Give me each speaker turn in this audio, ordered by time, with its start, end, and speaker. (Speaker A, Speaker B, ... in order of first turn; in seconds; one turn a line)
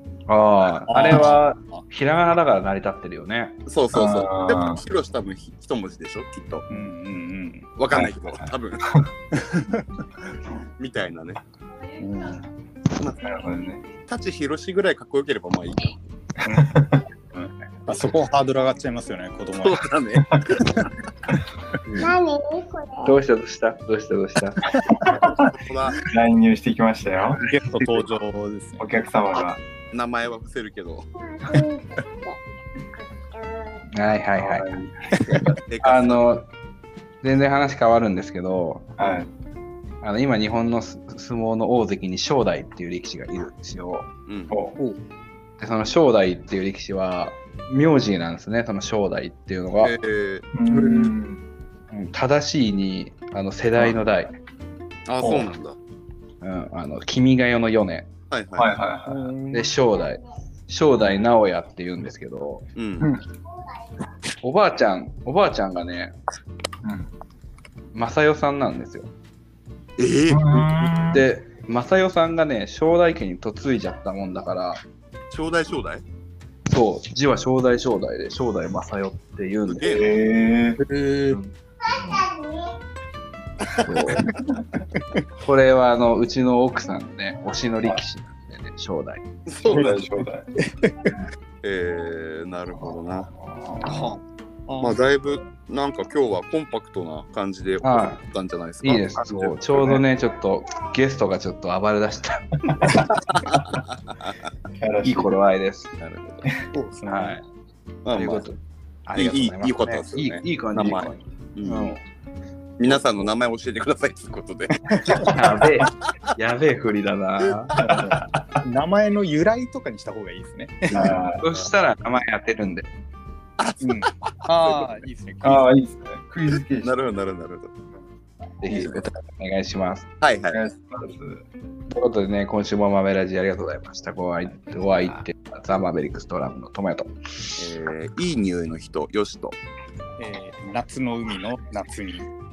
Speaker A: 0.3-3.6
Speaker B: 0.9-1.8
Speaker C: 3.7-6.7
Speaker D: 3.9-4.8
Speaker B: 6.7-7.7
Speaker C: 7.8-9.0
Speaker D: 7.9-9.1
Speaker B: 9.3-9.9
Speaker C: 10.8-11.4
Speaker B: 12.0-12.4
Speaker D: 13.1-13.8
Speaker C: 14.1-16.0
Speaker B: 16.4-16.7
Speaker D: 16.5-17.0
Speaker B: 17.3-19.9
Speaker C: 19.6-20.9
Speaker E: 22.0-23.2
Speaker A: 23.0-24.6
Speaker D: 24.9-25.5
Speaker C: 25.3-26.0
Speaker D: 26.0-27.4
Speaker B: 27.4-28.8
Speaker D: 28.8-29.6
Speaker C: 29.9-31.1
Speaker E: 31.1-32.4
Speaker E: 32.9-33.8
Speaker A: 33.9-34.8
Speaker D: 34.4-35.2
Speaker B: 35.2-35.5
Speaker C: 35.6-36.3
Speaker A: 35.8-36.5
Speaker A: 37.2-38.9
Speaker D: 39.0-39.3
Speaker A: 40.0-44.1
Speaker C: 44.3-44.5
Speaker D: 44.5-44.8
Speaker A: 45.6-49.9
Speaker C: 49.8-50.5
Speaker D: 50.5-51.4
Speaker B: 50.7-51.1
Speaker A: 51.9-54.4
Speaker C: 55.1-55.8
Speaker A: 56.4-58.1
Speaker C: 58.3-58.8
Speaker D: 58.6-59.3
Speaker B: 59.0-59.7
Speaker A: 59.5-62.6
Speaker C: 62.8-63.1
Speaker A: 64.4-66.1
Speaker D: 66.8-67.1
Speaker A: 67.9-69.1
Speaker C: 70.0-71.0
Speaker D: 70.3-71.3
Speaker A: 71.1-74.8
Speaker C: 75.3-76.0
Speaker A: 76.7-79.8
Speaker C: 79.7-80.2
Speaker D: 79.9-80.8
Speaker B: 80.8-81.4
Speaker E: 82.0-82.8
Speaker A: 83.8-84.3
Speaker A: 85.4-89.2
Speaker C: 89.5-90.2
Speaker D: 89.6-90.5
Speaker B: 90.6-91.2
Speaker C: 91.6-93.3
Speaker D: 93.3-94.1
Speaker B: 93.8-95.0
Speaker C: 94.8-100.0
Speaker A: 97.8-98.2
Speaker A: 98.8-103.2
Speaker D: 102.7-103.0
Speaker C: 103.3-104.3
Speaker D: 104.8-105.3
Speaker A: 105.0-105.9
Speaker C: 106.0-106.5
Speaker B: 106.7-107.4
Speaker A: 107.1-107.4
Speaker C: 108.0-108.5
Speaker A: 108.1-112.0
Speaker C: 109.1-112.0
Speaker C: 112.8-115.7
Speaker B: 114.9-115.3
Speaker A: 115.2-117.8
Speaker D: 117.8-118.2
Speaker B: 117.8-121.3
Speaker D: 120.9-121.4
Speaker A: 120.9-122.9
Speaker C: 123.6-124.0
Speaker B: 123.8-125.7
Speaker C: 124.6-124.9
Speaker D: 125.4-127.0
Speaker C: 126.8-127.7
Speaker A: 128.6-130.1
Speaker C: 128.7-129.0
Speaker C: 130.2-130.6
Speaker D: 130.5-131.4
Speaker A: 131.9-137.7
Speaker D: 134.7-135.2
Speaker C: 137.6-139.6
Speaker B: 140.2-142.3